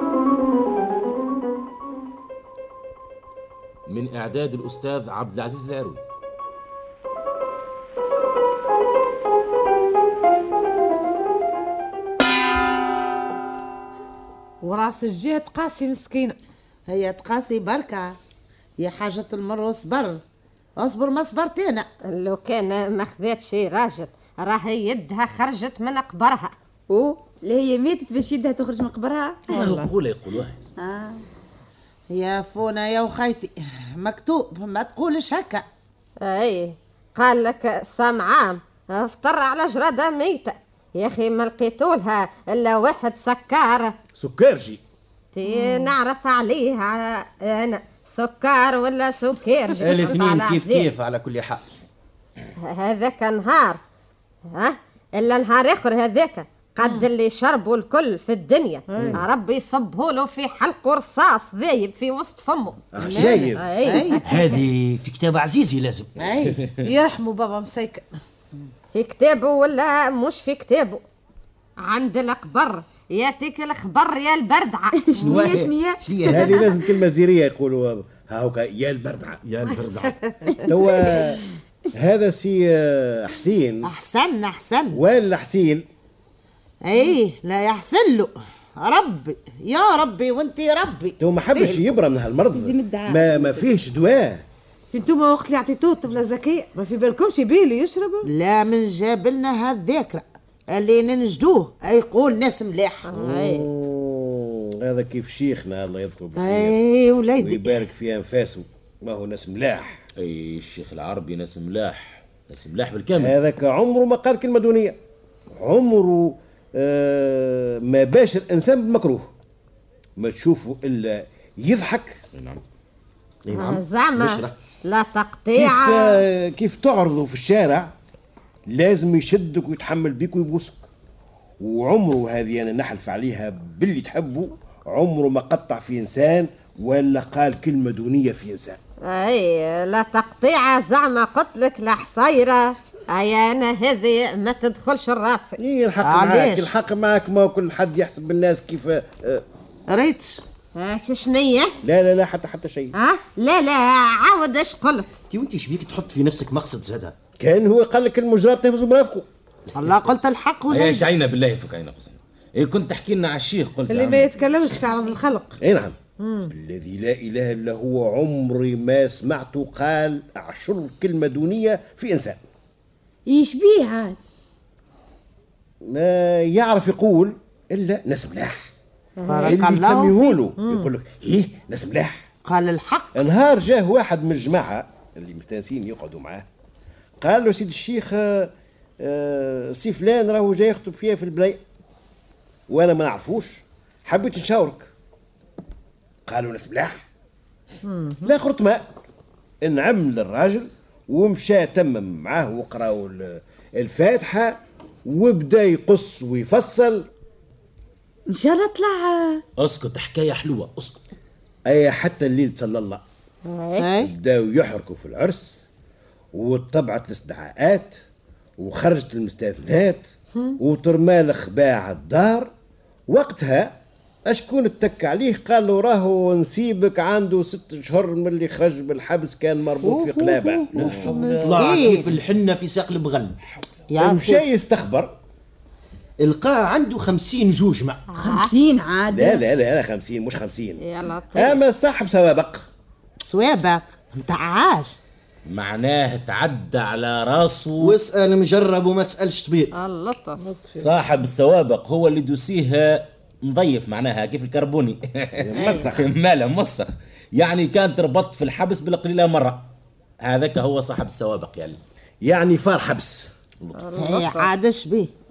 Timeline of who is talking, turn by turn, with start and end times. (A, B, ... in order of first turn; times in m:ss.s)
0:03.9-0:06.0 A
0:14.6-0:16.4 B
0:16.9-0:18.2 C
0:18.8-0:20.2 C
0:20.8-0:21.9 C
0:22.0-0:26.5 D
0:26.9-0:29.9 E
0:29.5-0:30.7 A
0:30.8-0:31.2 E
0:32.1-0:35.6 C
0:36.2-0:44.0 D
0:44.2-0:44.8 F
0:45.3-0:50.9 D
0:45.4-0:45.9 B
0:49.8-0:51.7 G
0:52.6-0:53.8 D
0:54.5-1:02.8 D
0:56.8-0:57.0 B
0:58.9-0:59.2 B
1:02.9-1:03.6 F
1:03.2-1:03.5 G
1:03.5-1:04.2 D
1:03.8-1:04.2 C
1:04.2-1:06.4 G
1:06.2-1:08.1 B
1:06.5-1:06.8 A
1:08.9-1:11.0 D
1:11.8-1:14.9 D
1:15.0-1:16.7 E
1:15.2-1:16.7 G
1:16.2-1:19.4 F
1:19.4-1:20.1 A
1:20.0-1:20.3 B
1:20.7-1:21.4 F
1:21.9-1:23.9 F
1:23.8-1:25.0 C
1:24.9-1:25.8 F
1:26.8-1:31.9 C
1:31.2-1:34.4 F
1:32.5-1:33.7 E
1:34.9-1:38.3 B
1:38.2-1:43.0 C
1:43.0-1:43.6 D
1:43.1-1:46.8 F
1:46.4-1:47.8 C
1:47.4-1:50.0 F
1:50.2-1:53.4 A
1:53.2-1:55.0 F
1:55.5-1:59.3 F
2:00.2-2:02.2 F
2:02.3-2:02.6 A
2:03.4-2:04.5 G
2:03.5-2:06.2 D
2:05.5-2:07.9 F
2:08.7-2:10.8 F
2:11.6-2:18.8 F
2:19.0-2:25.6 D
2:25.6-2:29.4 F
2:26.0-2:26.7 C
2:29.9-2:30.4 C
2:30.7-2:31.8 D
2:31.8-2:32.9 F
2:32.9-2:35.1 D
2:35.3-2:37.2 G
2:37.4-2:39.3 F
2:39.7-2:41.1 C
2:40.7-2:44.3 A
2:43.9-2:45.6 B
2:45.6-2:46.0 F
2:46.2-2:46.5 B
2:46.5-2:52.4 F
2:53.3-2:54.2 E
2:55.8-2:58.7 F
2:59.2-2:59.6 D
2:59.3-3:00.4 C
2:59.4-3:02.3 F
3:00.6-3:00.9 B
3:02.4-3:03.2 C
3:03.1-3:06.5 F
3:07.2-3:11.6 F
3:12.7-3:14.9 F
3:16.2-3:17.0 F
3:17.8-3:18.2 B
3:18.2-3:18.9 F
3:19.6-3:27.1 F
3:28.3-3:29.4 E
3:29.6-3:31.1 A
3:31.6-3:33.0 F
3:33.4-3:33.9 D
3:33.8-3:34.1 C
3:34.0-3:35.6 F
3:36.3-3:38.0 F
3:38.6-3:42.5 F
3:43.1-3:51.0 F
3:49.8-3:50.7 C
3:50.7-3:52.2 A
3:51.3-3:52.1 C
3:51.4-3:53.4 G
3:53.9-3:54.5 C
3:54.0-3:55.1 F
3:56.2-3:58.0 G
3:58.1-3:58.5 D
3:58.1-3:59.4 E
3:59.1-4:00.8 F
4:00.8-4:01.6 D
4:01.3-4:02.6 F
4:03.2-4:05.0 C
4:05.5-4:08.0 A
4:07.8-4:09.7 G
4:09.7-4:10.4 D
4:10.4-4:10.9 B
4:10.8-4:19.7 A
4:15.4-4:16.1 F
4:15.5-4:15.9 C
4:20.2-4:21.8 A
4:22.2-4:23.3 F
4:23.8-4:24.5 D
4:23.9-4:25.1 C